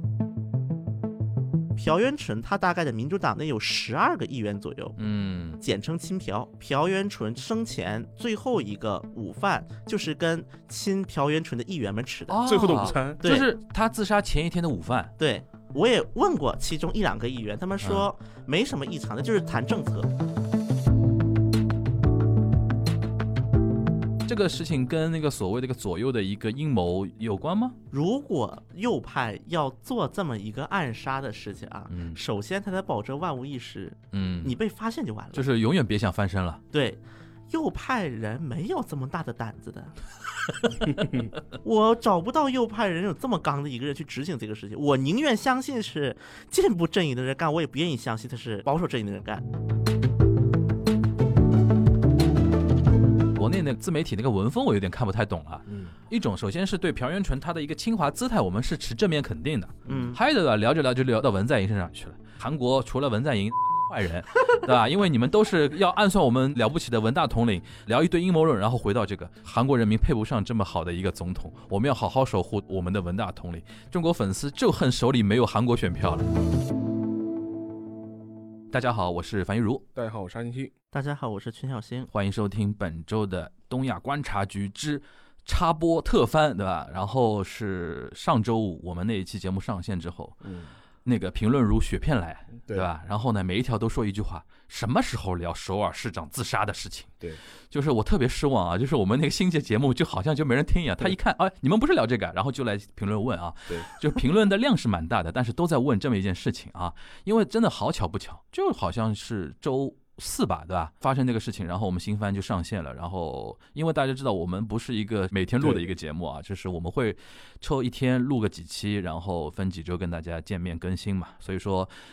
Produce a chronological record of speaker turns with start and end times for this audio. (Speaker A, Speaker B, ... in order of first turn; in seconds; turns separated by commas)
Speaker A: 1.8-5.0, Speaker B: 5.0-5.6, Speaker A: 5.6-13.4, Speaker B: 12.3-15.1, Speaker C: 12.4-13.2, Speaker A: 15.2-20.1, Speaker B: 17.8-18.1, Speaker B: 24.2-27.7, Speaker A: 27.9-35.5, Speaker B: 31.9-32.2, Speaker B: 34.1-34.5, Speaker B: 35.3-36.6, Speaker A: 36.7-40.0, Speaker A: 41.6-49.4, Speaker B: 53.3-76.3, Speaker C: 55.7-55.9, Speaker C: 59.9-60.1, Speaker A: 59.9-60.2, Speaker B: 78.7-79.8, Speaker C: 79.9-80.7, Speaker A: 80.9-82.1, Speaker B: 82.1-90.4, Speaker C: 90.4-90.7, Speaker B: 91.0-97.1, Speaker B: 97.7-121.9, Speaker C: 115.6-115.9